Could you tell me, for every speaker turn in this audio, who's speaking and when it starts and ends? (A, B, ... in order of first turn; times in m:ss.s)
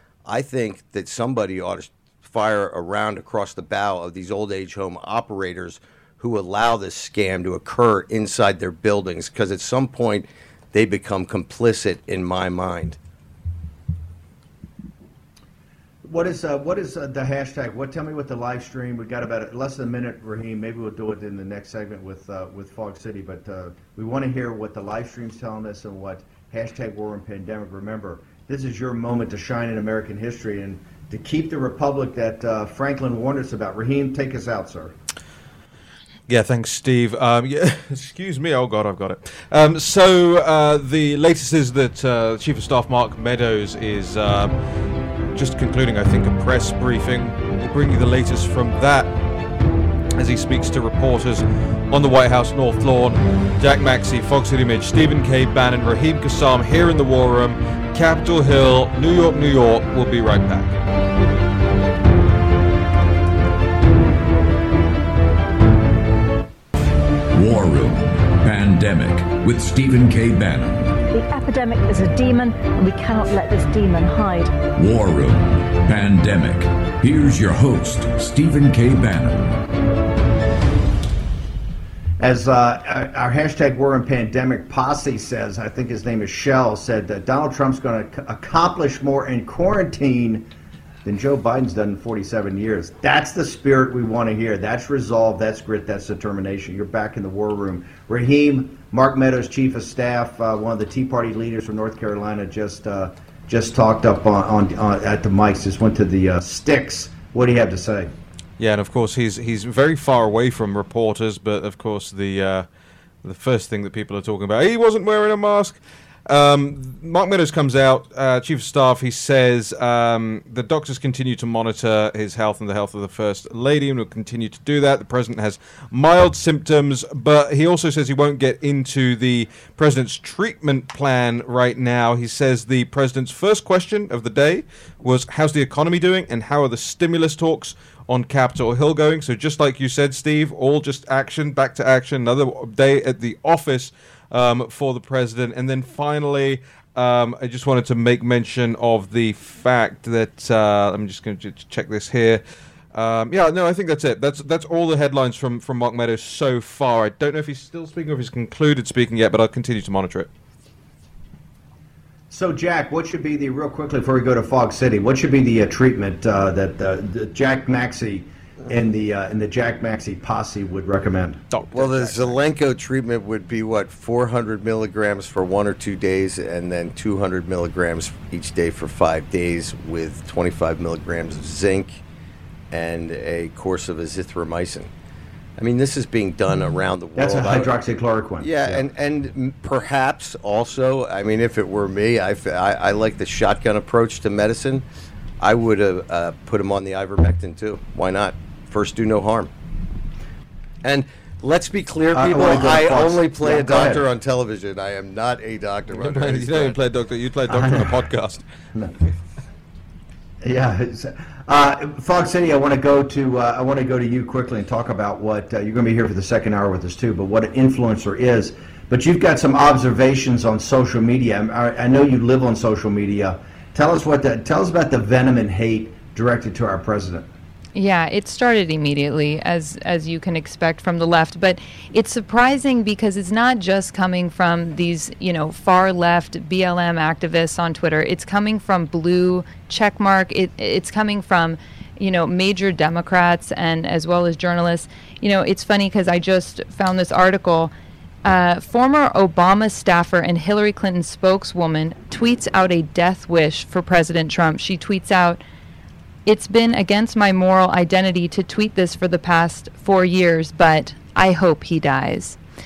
0:00.2-0:13.0 A
0:16.1-0:34.9 B
0:36.3-0:44.5 C
0:45.3-0:49.1 C
0:50.2-1:00.7 C
1:07.3-1:11.0 D
1:11.1-1:14.6 E
1:14.7-1:19.6 D
1:22.2-1:30.5 B
1:31.0-1:48.1 B
1:48.6-1:52.7 C
1:53.2-2:32.4 C
2:32.9-2:40.3 C
2:42.3-2:51.4 B
2:51.5-2:52.4 C
2:51.7-3:02.0 A
3:02.7-3:04.9 A
3:05.6-3:07.7 A
3:07.2-3:08.9 B
3:08.4-3:14.8 A
3:15.4-3:19.5 A
3:20.8-3:26.8 A
3:22.1-3:24.0 B
3:25.9-3:28.4 C
3:27.5-3:27.9 B
3:30.4-3:47.3 B
3:47.7-4:07.7 F
4:08.2-4:15.4 F
4:16.2-4:22.4 F